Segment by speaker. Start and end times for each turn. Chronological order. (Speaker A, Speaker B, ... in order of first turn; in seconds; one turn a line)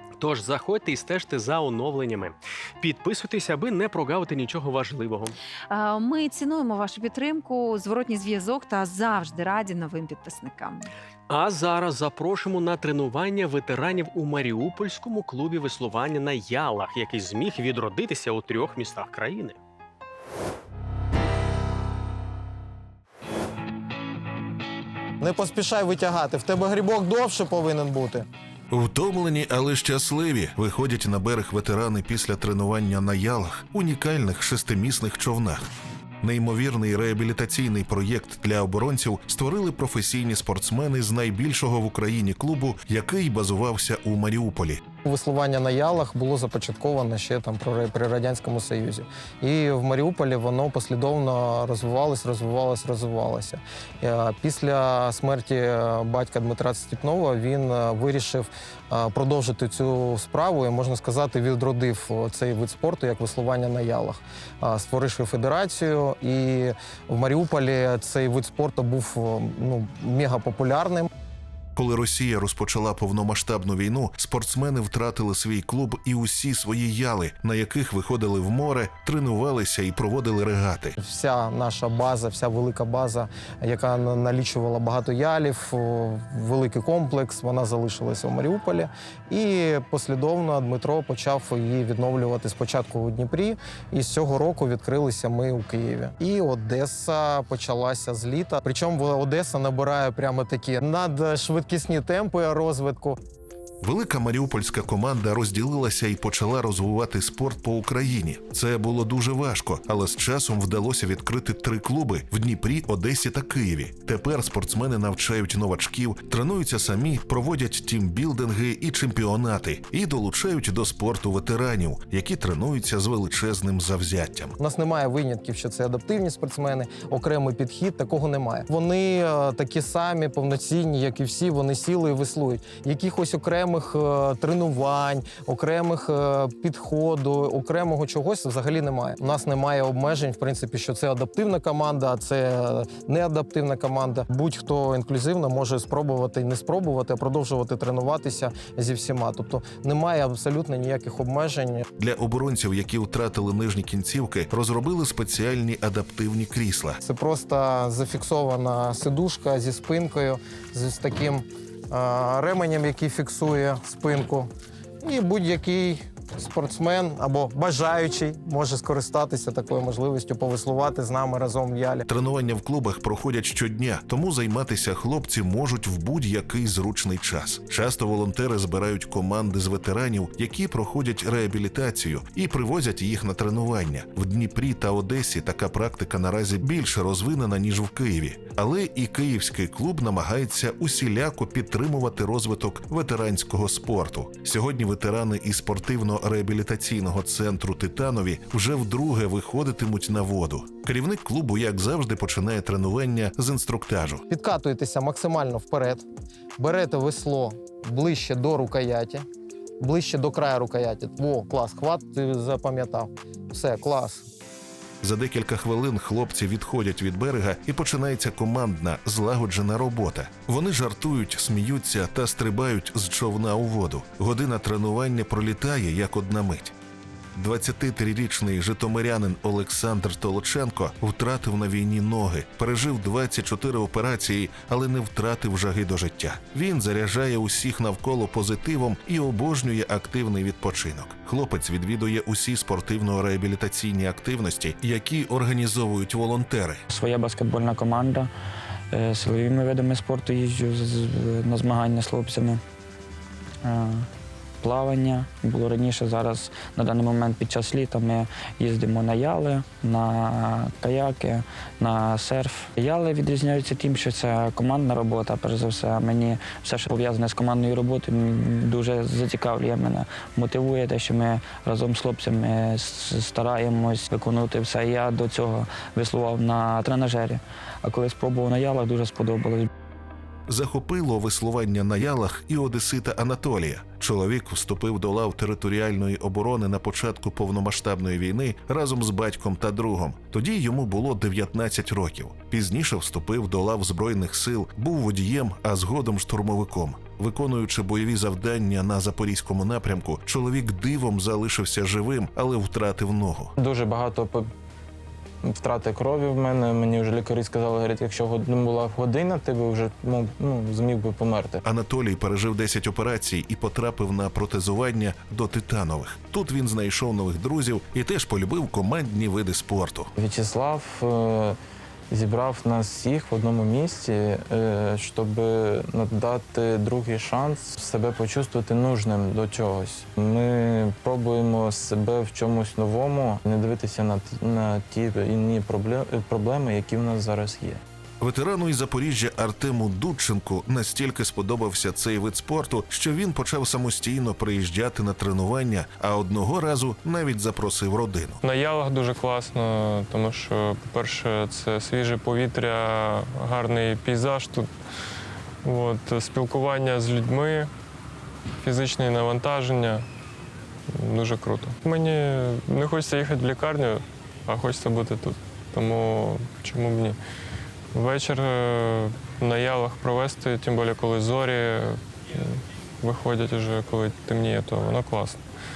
Speaker A: 0.2-5.4
Speaker B: 5.7-10.9
Speaker A: 11.3-19.6
Speaker C: 25.2-28.2
Speaker D: 28.7-35.6
Speaker D: 36.2-44.8
Speaker C: 45.0-71.1
Speaker D: 71.8-81.0
Speaker C: 81.0-103.2
Speaker D: 103.8-124.6
Speaker C: 124.6-151.8
Speaker D: 152.0-157.0
Speaker C: 157.0-164.5
Speaker C: 165.0-172.1
Speaker D: 172.1-204.2
Speaker C: 204.3-206.1
Speaker C: 206.6-209.2
Speaker C: 209.8-214.3
Speaker D: 215.0-226.7
Speaker D: 227.3-246.8
Speaker E: 246.9-248.3
Speaker E: 248.9-252.6
Speaker E: 253.6-254.1
Speaker E: 254.6-279.7
Speaker D: 280.5-303.5
Speaker F: 303.6-304.5
Speaker F: 305.4-311.6
Speaker D: 311.6-320.1
Speaker F: 320.2-321.6
Speaker F: 322.1-337.8
Speaker D: 338.2-348.4
Speaker G: 348.4-354.7
Speaker G: 355.6-357.7
Speaker G: 358.6-360.1
Speaker G: 360.9-367.2
Speaker G: 367.9-375.4